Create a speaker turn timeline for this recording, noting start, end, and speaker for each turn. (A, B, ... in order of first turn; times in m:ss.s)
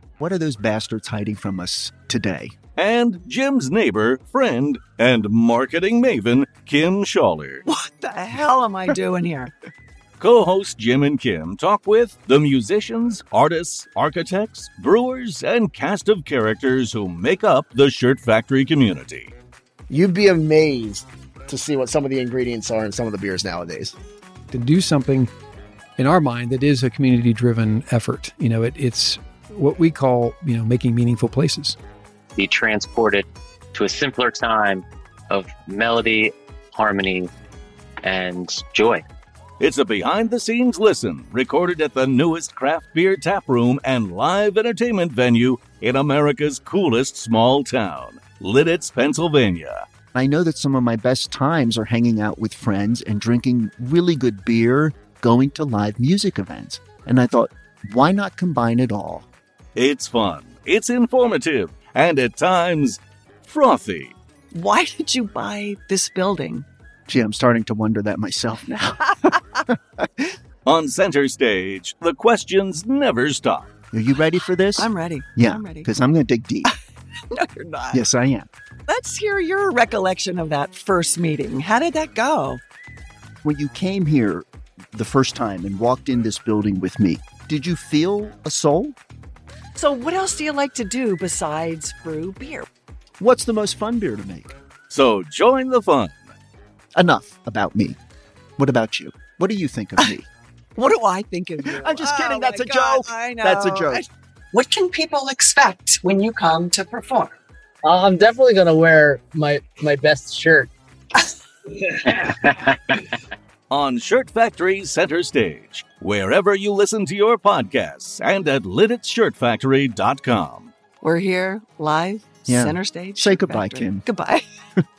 0:00.2-0:02.6 A
0:02.8-0:07.6 B
0:07.6-0:09.5 C
0:10.2-0:19.3 B
0:19.9-0:24.0 D
0:24.5-0:25.3 E
0:26.0-0:31.8 E
0:32.4-0:37.3 F
0:38.0-0:39.0 F
0:39.6-0:49.8 B
0:50.1-0:59.3 A
0:59.8-1:04.2 B
1:04.5-1:06.7 C
1:07.1-1:09.2 A
1:10.7-1:13.7 B
1:13.9-1:16.7 A
1:14.8-1:15.9 C
1:17.3-1:18.0 C
1:17.9-1:18.5 A
1:18.9-1:22.6 C
1:23.4-1:29.0 A
1:29.8-1:32.7 C
1:33.2-1:34.6 A
1:34.9-1:36.3 B
1:37.0-1:38.0 A
1:38.6-1:40.3 A
1:40.8-1:47.4 C
1:41.7-1:44.0 A
1:47.8-1:50.7 G
1:51.8-1:52.6 G
1:53.7-2:00.7 B
2:01.0-2:04.4 C
2:02.5-2:04.0 A